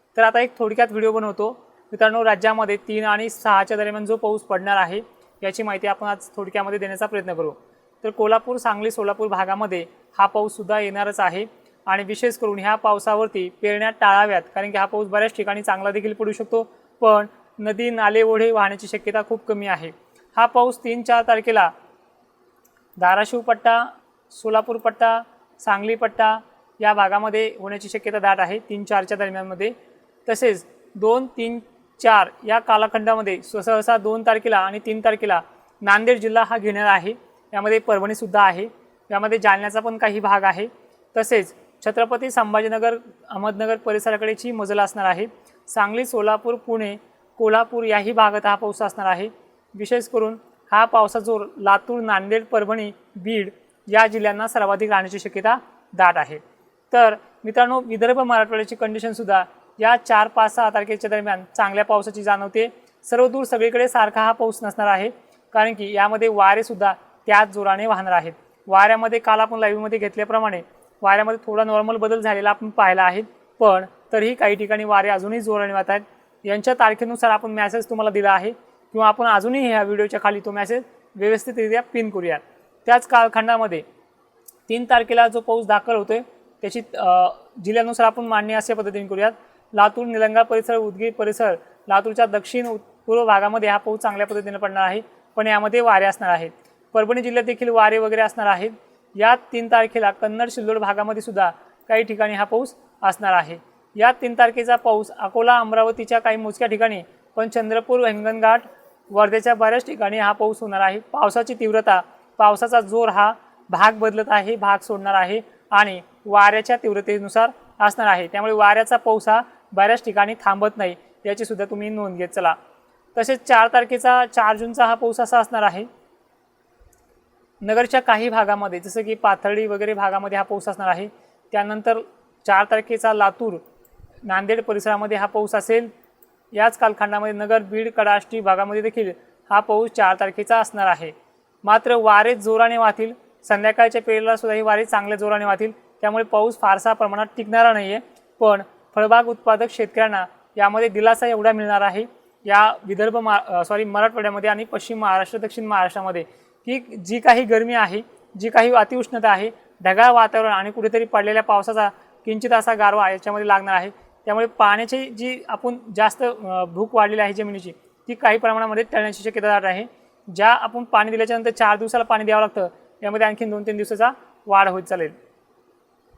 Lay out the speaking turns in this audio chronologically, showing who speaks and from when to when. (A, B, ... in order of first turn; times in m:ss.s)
0:00.2-0:21.7 A
0:23.0-0:29.8 A
0:30.3-1:23.8 A
1:24.7-2:02.6 A
2:03.2-2:05.9 A
2:07.6-2:13.6 A
2:14.2-2:15.9 A
2:16.5-2:55.2 A